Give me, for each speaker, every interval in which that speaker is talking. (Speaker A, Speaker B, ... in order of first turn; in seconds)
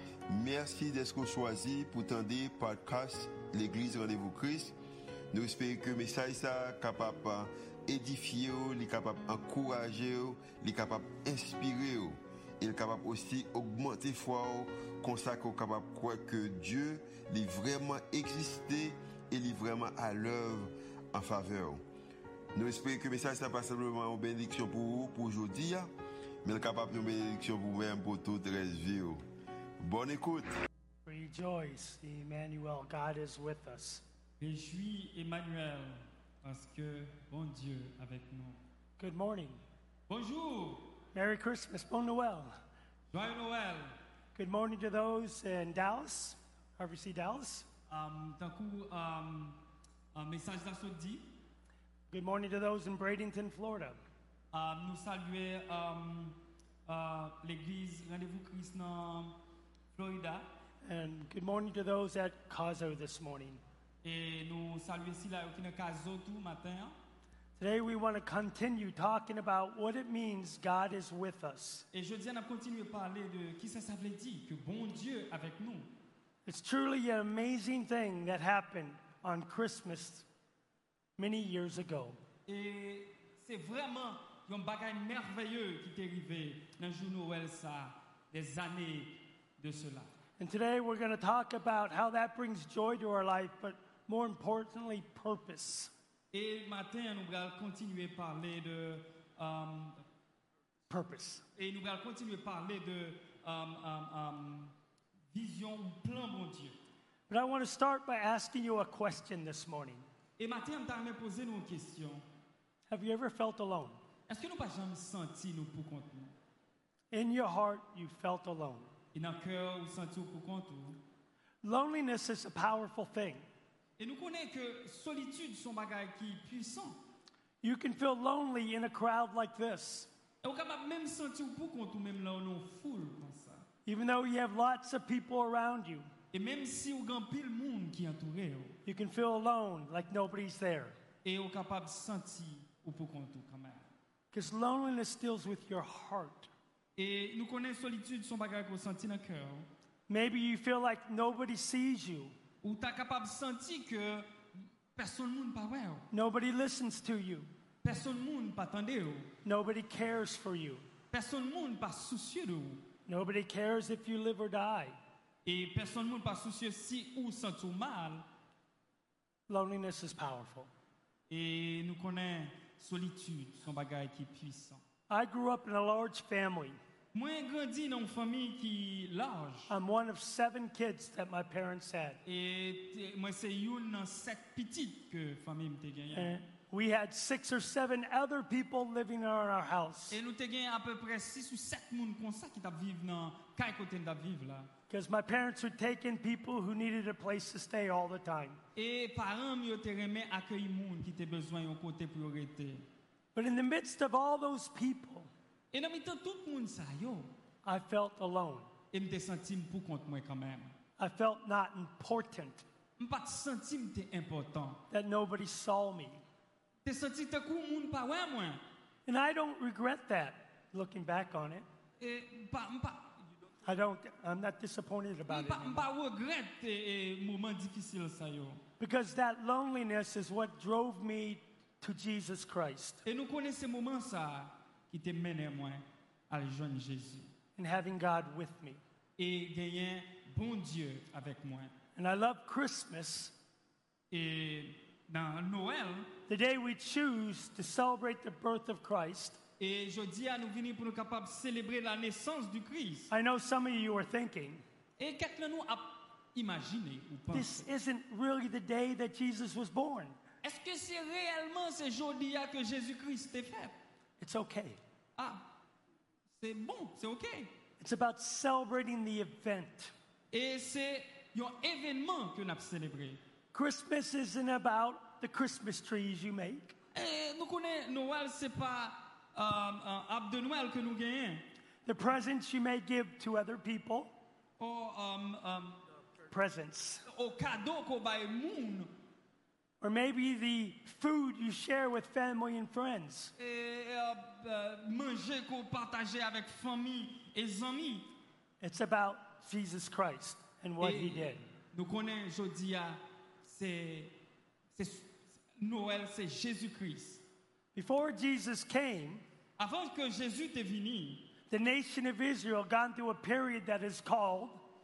Speaker A: 0.3-4.8, 5.3-21.8, 22.6-25.9, 26.4-29.2, 29.8-30.5
Speaker B: 31.1-34.0, 39.0-39.6, 41.1-42.5, 44.4-47.7, 52.1-54.0, 60.8-63.6, 67.6-71.9, 76.5-80.3, 81.2-82.2, 90.4-95.9, 100.9-101.4, 107.3-110.0, 112.9-114.0, 117.1-118.9, 121.6-123.5, 127.6-130.1, 133.9-136.1, 138.9-141.0, 144.3-146.5, 150.1-152.3, 156.1-157.5, 159.4-160.8, 163.1-165.0, 169.5-170.7, 175.1-176.8, 179.7-182.2, 186.1-190.2, 194.9-198.6, 203.3-205.3, 207.7-208.7, 211.0-212.7, 214.9-216.2, 219.1-221.7, 223.7-225.9, 228.8-233.0, 237.6-238.8, 242.0-243.3, 246.3-249.4, 253.1-254.6, 257.3-260.2, 264.2-264.8, 267.8-269.9, 273.5-276.8, 281.9-284.1, 286.3-287.1, 289.8-293.3, 298.6-301.4, 307.8-309.2, 311.5-314.6
Speaker C: 34.4-38.6, 40.1-41.0, 43.1-44.0, 47.9-49.6, 50.1-51.3, 54.5-59.4, 59.9-60.5, 64.0-67.0, 71.9-75.9, 82.5-90.1, 96.3-100.0, 101.6-104.7, 105.3-106.8, 110.4-112.2, 114.3-116.3, 119.1-121.0, 124.0-127.0, 130.4-133.7, 136.3-138.8, 141.2-143.9, 147.0-149.7, 152.6-156.1, 157.8-159.3, 161.1-162.9, 165.4-168.3, 171.3-174.8, 177.1-179.7, 182.2-186.3, 190.1-194.7, 198.8-202.8, 205.7-207.3, 208.9-210.8, 213.0-214.8, 216.8-218.6, 222.0-223.2, 225.3-228.6, 233.1-237.3, 239.2-241.7, 244.1-246.1, 249.6-253.1, 255.0-257.7, 260.4-263.8, 265.2-265.5, 266.4-267.5, 270.3-273.2, 276.9-281.4, 284.6-285.8, 287.1-288.9, 293.4-298.1, 300.8-304.1, 304.7-307.2, 309.6-311.3